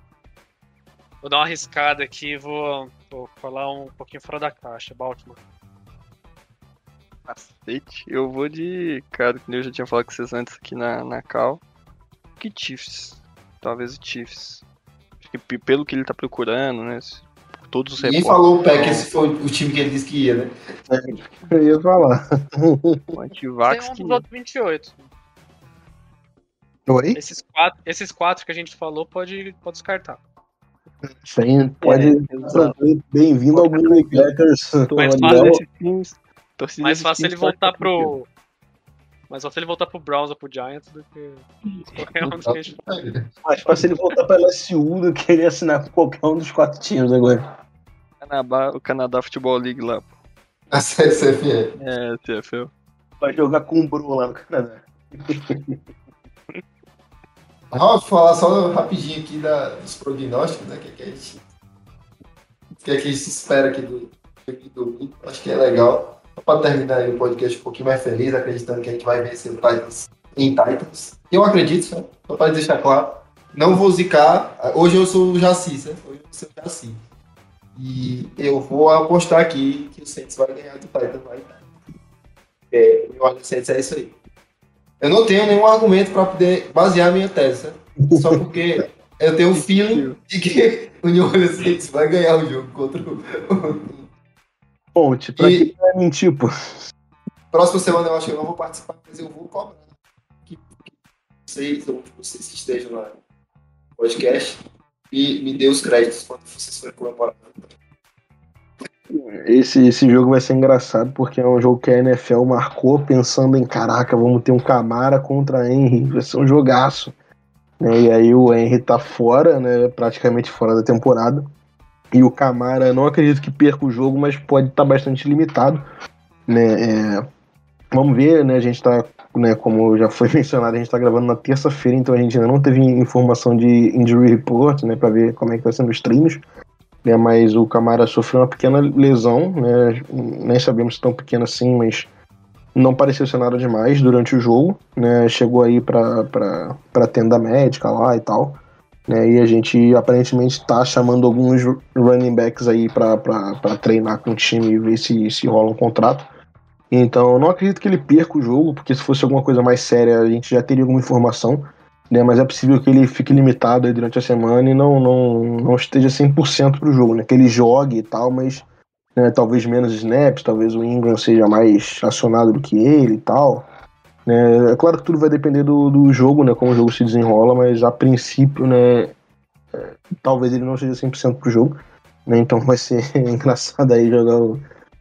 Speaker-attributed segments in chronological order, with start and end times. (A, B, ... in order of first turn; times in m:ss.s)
0:01.2-0:05.4 A
0:07.3-0:11.6 B
0:12.4-0:14.6 B
0:15.2-0:19.0 B
0:18.0-0:20.5 C
0:20.9-0:23.2 D
0:23.1-0:24.2 B
0:23.7-0:25.0 A
0:26.9-0:27.2 D
0:27.2-0:30.2 A
0:31.2-0:35.6 D
0:31.8-0:32.8 B
0:33.5-0:34.3 B
0:34.9-0:38.1 B
0:35.0-0:35.6 A
0:36.8-0:38.3 A
0:39.3-0:42.8 A
0:42.3-0:43.2 C
0:43.4-0:47.4 D
0:48.2-0:50.2 B
0:50.7-0:51.7 C
0:51.8-0:52.7 B
0:53.2-0:54.9 D
0:55.5-0:55.8 D
0:57.7-1:01.4 C
1:02.8-1:17.0 C
1:17.8-1:21.7 C
1:22.7-1:24.2 C
1:25.0-1:34.1 C
1:28.0-1:28.4 D
1:29.5-1:30.2 B
1:35.0-1:36.5 D
1:35.4-1:35.7 C
1:37.5-1:39.9 C
1:40.5-1:40.9 C
1:41.5-1:43.1 C
1:44.0-1:44.6 C
1:45.1-1:47.7 C
1:49.1-1:57.1 D
1:57.8-2:01.5 D
2:02.1-2:05.8 D
2:06.5-2:07.3 D
2:07.9-2:16.4 D
2:17.0-2:22.1 D
2:22.8-2:36.3 D
2:36.9-2:48.6 D
2:49.2-2:53.6 D
2:54.3-2:59.1 D
2:59.7-3:01.8 D
3:02.3-3:04.6 D